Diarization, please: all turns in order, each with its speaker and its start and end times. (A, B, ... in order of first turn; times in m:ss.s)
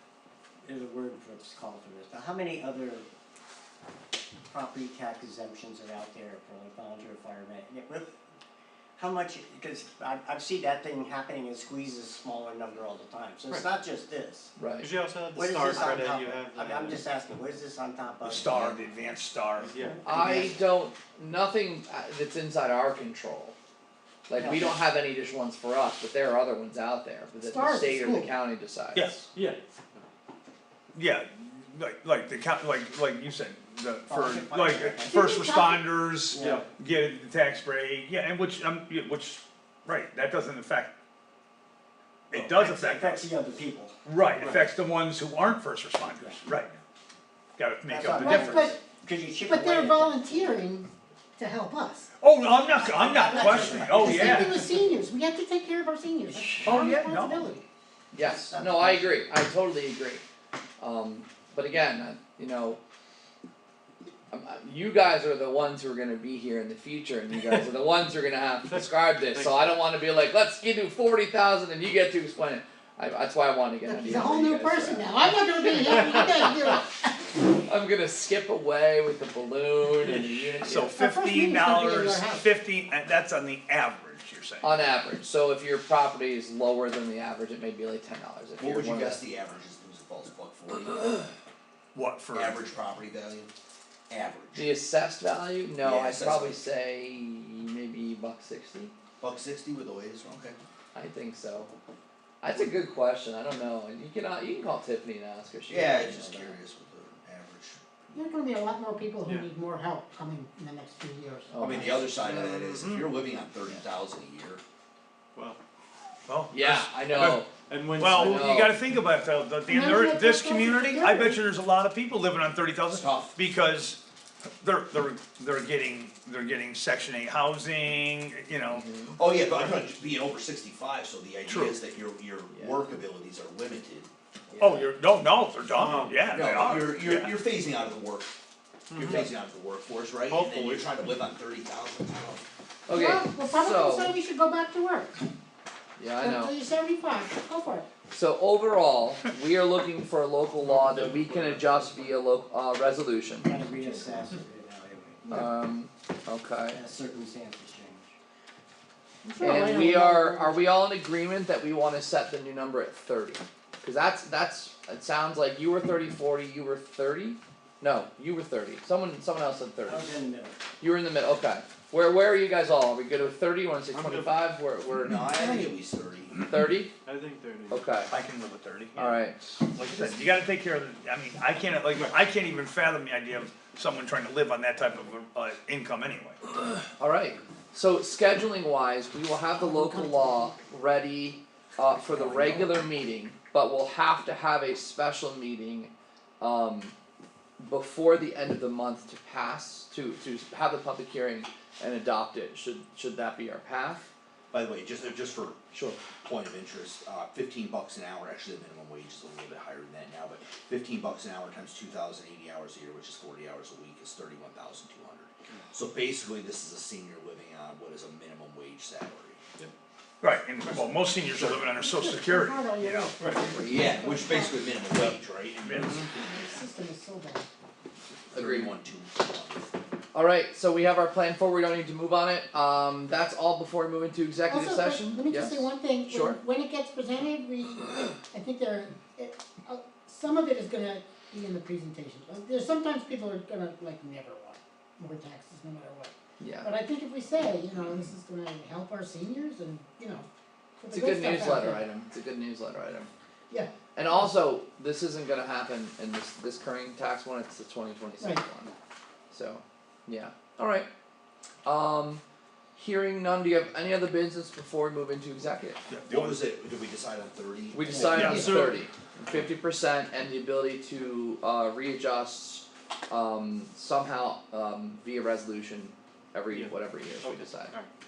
0:00.6-0:03.1 A
0:04.4-0:08.1 A
0:09.0-0:14.5 A
0:14.6-0:14.9 B
0:14.8-0:17.0 C
0:15.3-0:19.0 A
0:18.2-0:19.8 D
0:19.6-0:20.0 C
0:19.7-0:20.5 A
0:20.0-0:23.6 B
0:24.3-0:29.2 B
0:24.3-0:24.8 A
0:27.4-0:28.4 E
0:29.0-0:29.2 D
0:29.3-0:30.0 C
0:30.9-0:40.9 D
0:34.1-0:35.3 A
0:35.0-0:35.9 E
0:36.3-0:36.7 A
0:36.4-0:36.7 C
0:42.3-0:43.3 D
0:42.3-0:44.7 A
0:44.0-0:46.8 D
0:47.6-0:48.7 D
0:47.8-0:50.6 A
0:48.1-0:48.9 E
0:49.4-0:52.1 E
0:52.2-0:54.6 D
0:52.8-0:54.8 A
0:53.2-0:57.6 E
0:56.6-0:57.5 D
0:58.1-1:00.2 B
0:58.2-0:59.1 A
1:00.8-1:02.8 B
1:04.3-1:16.5 B
1:08.7-1:09.7 C
1:13.9-1:17.2 E
1:17.4-1:20.9 B
1:20.6-1:24.8 D
1:21.0-1:22.5 E
1:24.6-1:29.2 B
1:28.6-1:31.3 F
1:31.9-1:32.6 D
1:32.3-1:33.5 F
1:34.1-1:34.7 F
1:34.6-1:38.9 B
1:35.8-1:36.6 F
1:39.2-1:40.6 F
1:40.9-1:41.7 B
1:42.4-1:46.6 B
1:45.7-1:48.2 F
1:48.1-1:51.8 E
1:51.5-1:52.1 B
1:51.6-1:54.6 F
1:52.2-1:53.1 C
1:56.3-2:04.0 D
1:56.5-1:57.5 B
1:57.7-1:58.6 C
1:58.1-1:58.8 B
1:59.7-2:01.4 E
2:02.9-2:03.3 F
2:04.6-2:08.9 D
2:08.7-2:09.2 B
2:09.2-2:14.1 F
2:09.4-2:09.9 D
2:11.5-2:11.8 D
2:12.5-2:12.8 B
2:14.5-2:14.8 B
2:14.6-2:17.3 D
2:15.7-2:16.3 C
2:16.2-2:18.3 F
2:18.9-2:19.3 C
2:18.9-2:22.4 F
2:20.3-2:20.9 C
2:22.9-2:24.2 B
2:22.9-2:25.2 E
2:26.0-2:26.5 B
2:26.2-2:27.9 E
2:28.1-2:33.5 B
2:30.6-2:31.9 C
2:33.5-2:35.4 A
2:33.6-2:34.2 E
2:35.3-2:36.8 B
2:36.7-2:38.1 A
2:39.2-2:40.6 E
2:39.4-2:50.2 B
2:49.8-2:50.6 A
2:50.8-2:55.7 B
2:53.9-2:54.3 C
2:54.9-2:56.4 F
2:56.4-2:56.9 B
2:57.0-2:57.9 C
2:57.7-2:58.1 B
2:58.1-3:06.4 D
2:59.0-2:59.6 B
3:07.0-3:16.9 B
3:09.5-3:10.5 E
3:17.6-3:24.1 B
3:24.5-3:25.6 F
3:25.7-3:26.0 B
3:26.2-3:39.4 F
3:40.2-3:43.1 D
3:41.7-3:44.8 E
3:43.2-3:43.5 C
3:43.5-3:44.0 B
3:43.6-3:46.1 F
3:45.6-3:45.9 D
3:46.0-3:47.5 E
3:48.3-3:48.8 B
3:48.3-3:49.7 F
3:50.1-3:56.4 B
3:54.5-4:10.3 E
4:06.4-4:06.7 B
4:10.8-4:11.8 E
4:10.9-4:13.1 B
4:14.0-4:18.7 B
4:18.2-4:18.4 E
4:19.3-4:20.9 B
4:21.6-4:22.2 B
4:22.7-4:25.8 B
4:25.9-4:26.4 D
4:26.1-4:28.1 F
4:27.7-4:37.7 B
4:28.1-4:28.5 D
4:28.1-4:28.7 E
4:28.2-4:28.8 C
4:36.5-4:37.9 C